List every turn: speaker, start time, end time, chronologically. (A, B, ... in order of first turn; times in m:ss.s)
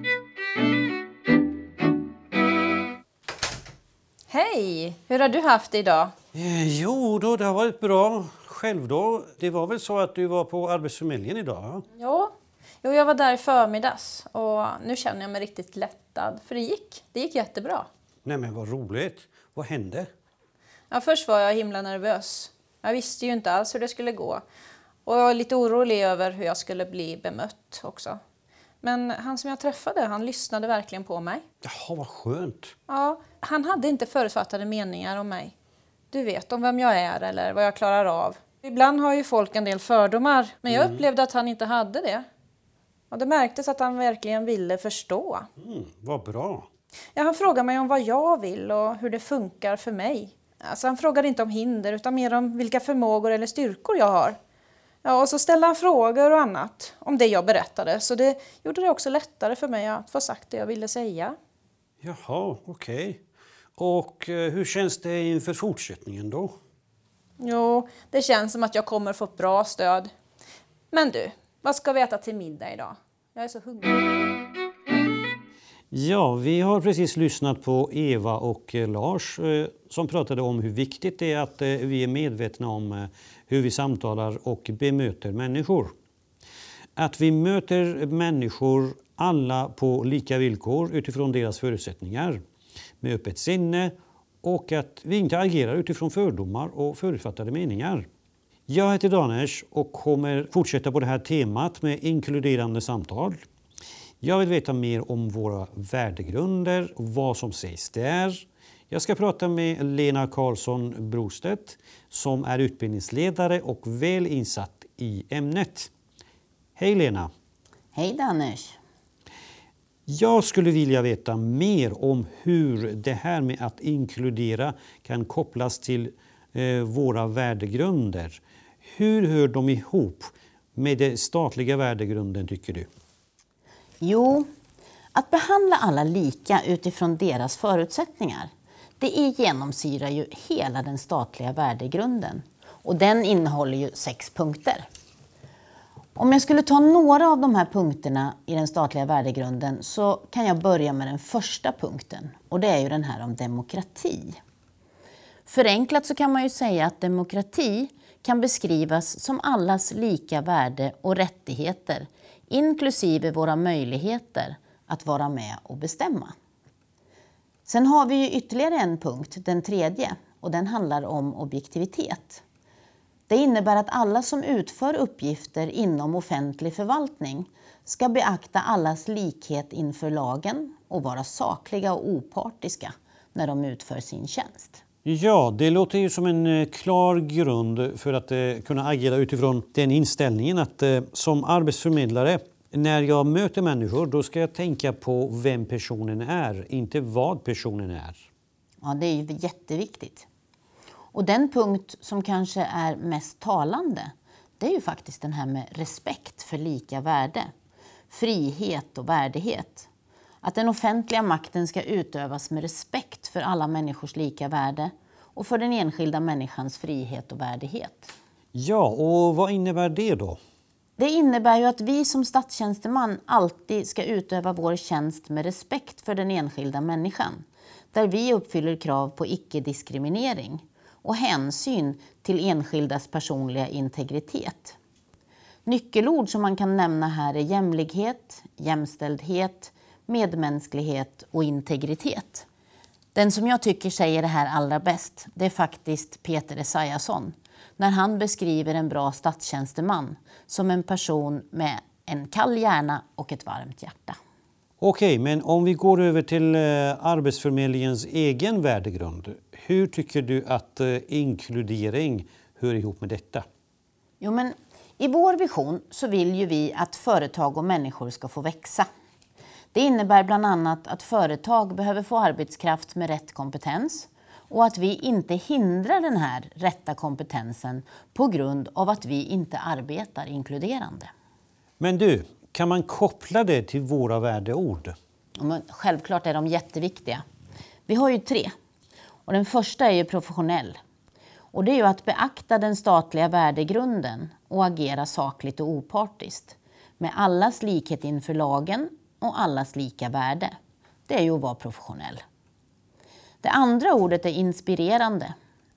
0:04.3-0:06.1 A
0:06.3-0:11.8 B
0:12.0-0:12.3 A
0:12.8-0:17.9 A
0:18.2-0:20.1 B
0:20.9-0:24.4 A
0:25.0-0:28.2 A
0:28.8-0:31.4 A
0:31.6-0:32.7 B
0:32.9-0:35.5 A
0:36.1-0:42.2 A
0:40.7-0:41.0 B
0:43.1-0:45.4 A
0:45.6-0:46.7 B
0:47.2-0:54.4 A
0:55.0-1:01.3 A
1:02.0-1:03.2 B
1:03.8-1:06.5 B
1:07.4-1:10.1 A
1:10.9-1:13.9 A
1:15.9-1:25.9 B
1:27.0-1:32.4 B
1:33.0-1:38.1 B
1:38.7-1:43.4 B
1:44.2-1:55.9 B
1:56.8-1:57.3 B
1:57.9-1:58.8 C
2:00.1-2:12.9 B
2:14.0-2:14.4 C
2:15.1-2:24.8 C
2:26.2-2:34.4 C
2:35.5-2:46.3 C
2:47.6-2:52.4 C
2:53.3-3:04.8 C
3:05.0-3:18.2 B
3:18.8-3:20.2 C
3:21.1-3:27.5 C
3:28.1-3:29.9 C
3:30.4-3:38.1 C
3:38.5-3:40.4 B
3:41.0-3:54.8 C
3:55.6-4:02.4 C
4:03.1-4:14.2 C
4:14.8-4:23.4 B
4:24.2-4:28.9 C
4:29.7-4:41.1 C
4:41.8-4:44.9 B
4:45.4-4:47.2 C
4:47.9-4:48.5 C
4:49.3-4:50.8 C
4:51.5-5:00.5 C
5:01.1-5:02.2 C
5:03.4-5:05.3 C